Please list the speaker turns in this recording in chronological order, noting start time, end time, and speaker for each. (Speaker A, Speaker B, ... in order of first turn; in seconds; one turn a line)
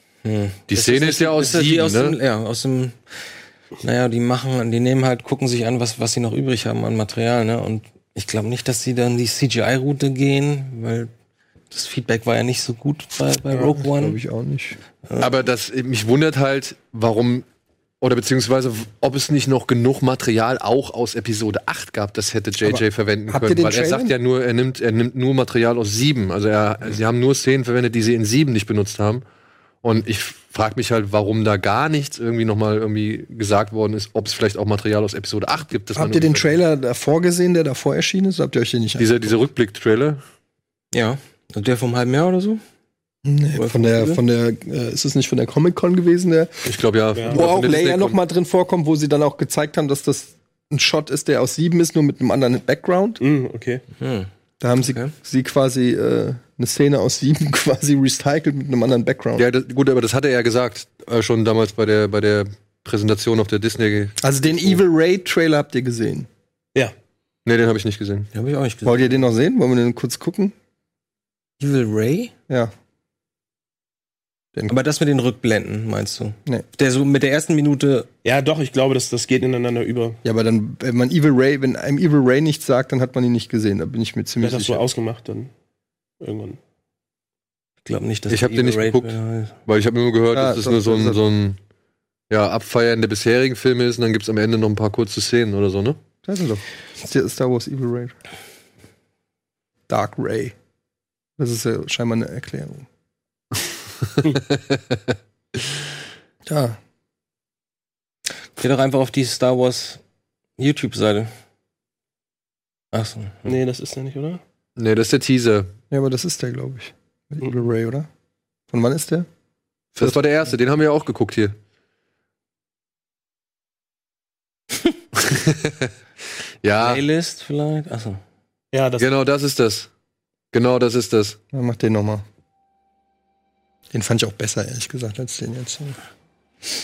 Speaker A: 0.2-3.0
Speaker B: 0.7-2.2
Speaker A: 3.8-11.1
Speaker A: 11.7-14.2
Speaker C: 13.8-14.8
Speaker B: 15.2-17.4
Speaker B: 18.0-29.2
Speaker C: 22.6-24.1
Speaker B: 29.8-36.5
Speaker C: 35.9-39.4
Speaker B: 39.0-40.2
Speaker A: 40.9-42.6
Speaker C: 43.2-46.5
Speaker A: 43.5-44.2
Speaker B: 46.6-48.2
Speaker D: 47.1-47.4
Speaker C: 47.3-53.2
Speaker D: 53.2-53.8
Speaker A: 54.0-54.3
Speaker C: 54.6-59.4
Speaker A: 54.8-55.1
Speaker B: 59.4-64.8
Speaker C: 64.2-66.3
Speaker B: 67.4-68.3
Speaker A: 68.3-69.2
Speaker C: 68.8-70.5
Speaker A: 71.6-72.3
Speaker A: 74.7-78.1
Speaker D: 78.2-80.2
Speaker C: 80.2-84.8
Speaker D: 84.4-85.5
Speaker D: 86.2-86.6
Speaker A: 87.8-89.5
Speaker B: 88.3-91.6
Speaker C: 90.3-91.2
Speaker B: 92.3-96.0
Speaker C: 96.2-98.1
Speaker C: 99.9-100.5
Speaker C: 101.4-102.8
Speaker B: 104.5-105.1
Speaker C: 106.5-106.8
Speaker A: 108.6-110.0
Speaker A: 110.6-111.3
Speaker A: 112.9-113.5
Speaker D: 113.5-114.4
Speaker B: 114.8-115.7
Speaker C: 115.9-118.1
Speaker C: 118.7-119.3
Speaker B: 120.0-121.5
Speaker B: 125.2-125.9
Speaker B: 126.6-127.0
Speaker A: 126.8-128.2
Speaker D: 128.7-129.1
Speaker B: 129.0-129.9
Speaker B: 130.5-131.4
Speaker C: 131.5-132.2
Speaker C: 133.9-135.9